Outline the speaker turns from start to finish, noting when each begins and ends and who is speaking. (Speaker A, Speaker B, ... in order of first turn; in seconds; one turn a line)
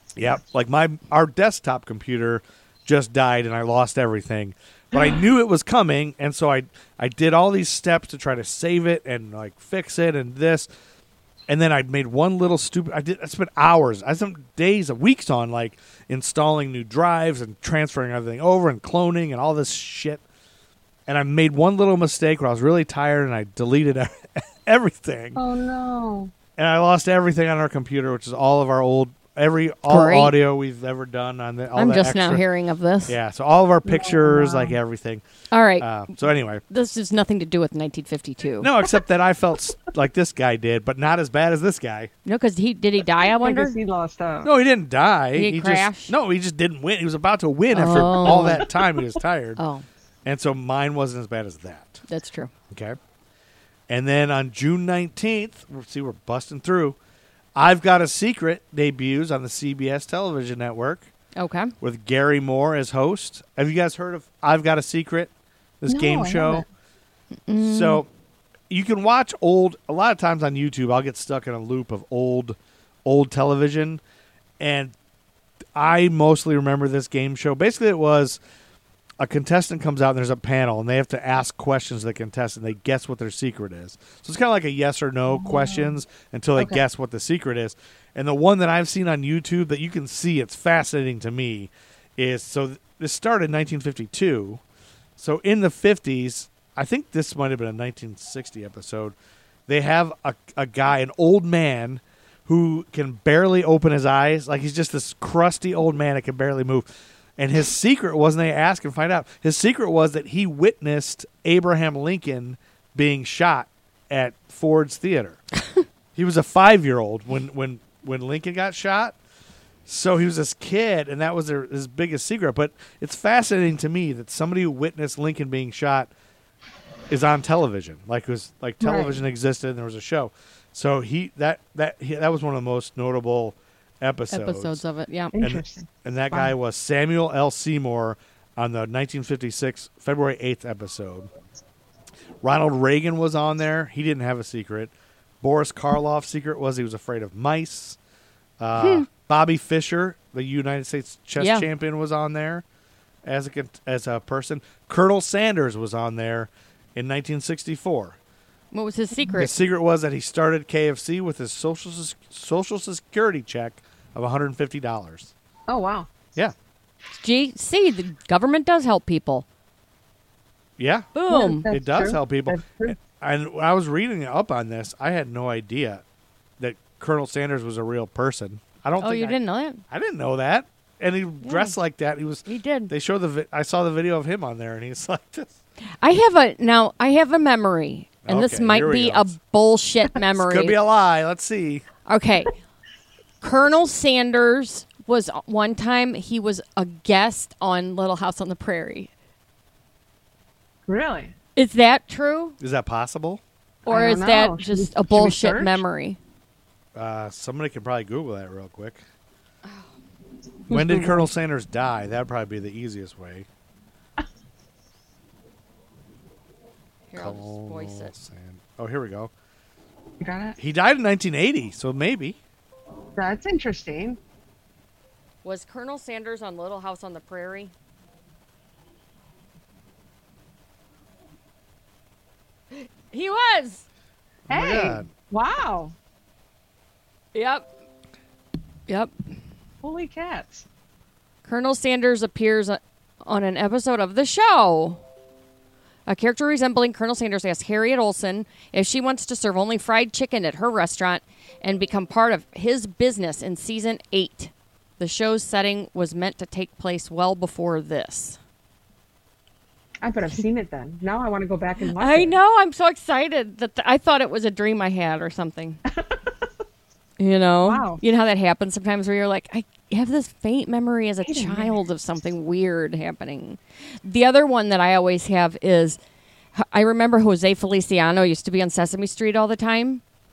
Speaker A: 0.2-10.7
Speaker B: 4.9-5.2
Speaker A: 11.5-20.2
Speaker A: 21.1-25.4
Speaker B: 25.4-26.3
Speaker A: 26.6-32.4
Speaker C: 29.9-30.3
Speaker C: 31.8-33.2
Speaker A: 33.1-35.2
Speaker B: 33.9-34.8
Speaker C: 35.5-36.1
Speaker A: 35.8-36.6
Speaker C: 36.7-38.7
Speaker A: 38.6-42.1
Speaker C: 42.2-43.8
Speaker B: 43.2-44.5
Speaker A: 44.4-49.6
Speaker C: 45.4-46.1
Speaker C: 47.7-48.6
Speaker B: 48.1-48.6
Speaker C: 49.6-49.9
Speaker A: 50.3-52.0
Speaker C: 52.1-52.5
Speaker A: 52.7-53.0
Speaker A: 53.9-57.0
Speaker A: 57.5-61.1
Speaker C: 61.4-61.7
Speaker A: 61.8-66.7
Speaker B: 65.9-66.7
Speaker C: 67.5-68.0
Speaker A: 67.6-68.1
Speaker A: 68.7-74.0
Speaker A: 74.6-75.0
Speaker A: 75.8-78.4
Speaker A: 79.2-94.6
Speaker B: 85.3-86.0
Speaker A: 95.2-99.2
Speaker A: 99.7-115.4
Speaker A: 116.2-119.2
Speaker A: 119.9-126.1
Speaker A: 127.1-134.8
Speaker B: 128.8-129.2
Speaker C: 134.3-135.3
Speaker B: 135.3-136.6
Speaker A: 135.4-141.3
Speaker A: 142.4-148.0
Speaker A: 148.6-152.6
Speaker C: 148.8-149.1
Speaker C: 151.4-151.7
Speaker A: 153.2-158.2
Speaker C: 158.7-159.5
Speaker A: 159.4-165.3
Speaker B: 165.7-166.1
Speaker C: 167.2-169.4
Speaker A: 170.8-171.1
Speaker C: 171.1-171.7
Speaker B: 171.3-173.0
Speaker A: 171.7-176.0
Speaker A: 176.6-179.4
Speaker C: 179.0-179.8
Speaker A: 179.9-185.6
Speaker C: 181.4-181.8
Speaker C: 182.5-182.9
Speaker C: 186.0-190.8
Speaker A: 188.2-189.3
Speaker A: 190.3-191.8
Speaker C: 192.1-192.6
Speaker C: 193.4-199.1
Speaker B: 200.9-201.3
Speaker C: 201.6-202.6
Speaker A: 202.6-203.4
Speaker C: 203.9-206.2
Speaker B: 203.9-205.8
Speaker A: 206.9-209.0
Speaker B: 210.7-211.3
Speaker A: 210.7-213.5
Speaker C: 217.1-218.1
Speaker A: 217.2-219.3
Speaker B: 220.2-220.6
Speaker A: 220.6-222.4
Speaker B: 223.2-224.2
Speaker C: 225.4-227.7
Speaker C: 232.7-233.9
Speaker A: 234.5-235.1
Speaker B: 234.5-235.9
Speaker C: 237.3-237.7
Speaker B: 239.8-240.7
Speaker C: 241.4-245.0
Speaker C: 246.1-258.4
Speaker B: 260.0-262.4
Speaker C: 262.0-265.8
Speaker C: 267.2-276.0
Speaker B: 267.7-268.0
Speaker B: 271.2-271.8
Speaker C: 276.6-280.0